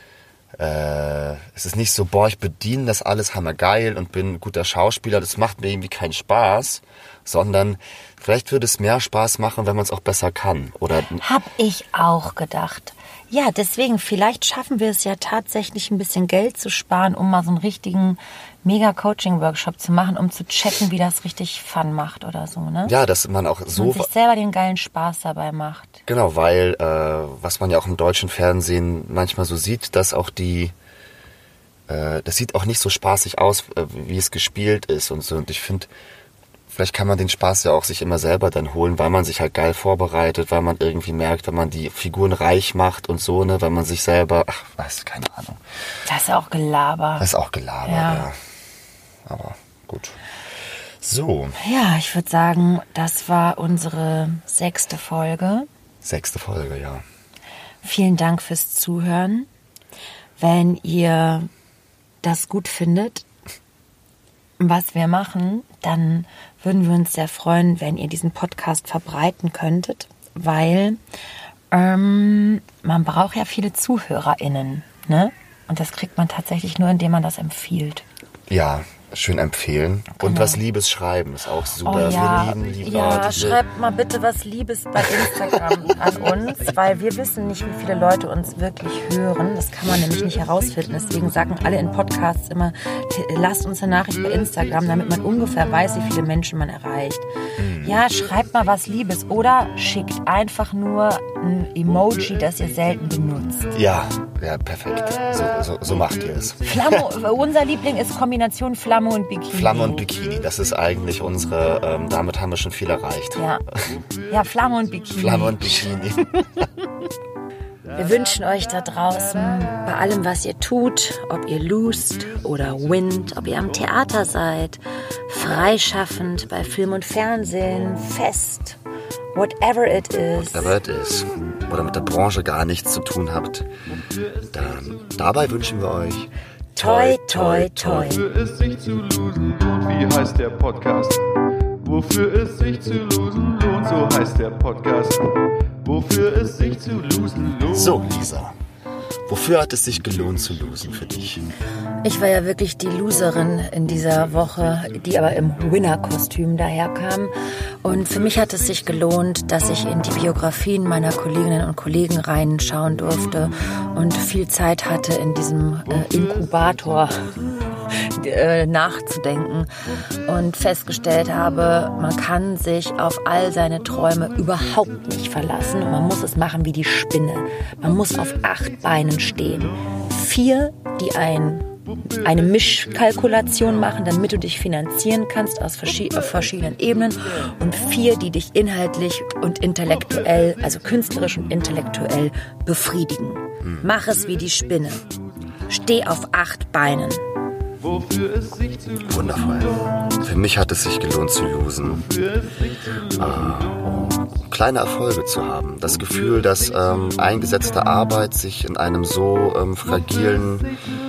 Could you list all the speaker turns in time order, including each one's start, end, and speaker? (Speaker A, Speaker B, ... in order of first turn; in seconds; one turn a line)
Speaker A: 0.6-11.2
Speaker B: 11.2-22.9
Speaker A: 22.8-24.1
Speaker B: 23.8-26.0
Speaker A: 26.1-30.7
Speaker A: 31.9-35.9
Speaker A: 36.7-45.6
Speaker B: 46.0-47.3
Speaker A: 47.2-48.4
Speaker B: 47.8-48.3
Speaker A: 49.2-50.2
Speaker A: 51.0-51.5
Speaker B: 51.6-55.7
Speaker A: 56.0-57.0
Speaker B: 57.8-59.5
Speaker B: 60.4-61.5
Speaker B: 62.2-63.2
Speaker B: 64.6-71.0
Speaker B: 71.7-78.0
Speaker A: 78.5-83.6
Speaker B: 80.1-80.6
Speaker B: 81.8-97.2
Speaker A: 85.0-85.6
Speaker A: 97.6-98.0
Speaker B: 97.8-103.7
Speaker A: 103.7-107.0
Speaker B: 106.6-110.0
Speaker A: 109.5-114.0
Speaker B: 113.3-113.6
Speaker C: 113.9-115.5
Speaker B: 114.3-115.8
Speaker A: 115.1-116.7
Speaker B: 117.9-128.8
Speaker B: 129.3-130.8
Speaker A: 130.4-133.7
Speaker C: 134.0-135.3
Speaker A: 134.5-138.2
Speaker B: 136.8-138.2
Speaker C: 138.0-141.2
Speaker C: 141.8-148.0
Speaker A: 147.7-148.6
Speaker A: 149.3-151.4
Speaker B: 152.0-157.3
Speaker B: 157.8-167.4
Speaker B: 167.9-169.7
Speaker B: 170.2-181.7
Speaker B: 182.2-195.1
Speaker A: 193.6-193.9
Speaker B: 195.7-197.2
Speaker C: 197.8-200.2
Speaker A: 199.1-202.1
Speaker C: 202.0-204.1
Speaker A: 203.1-210.7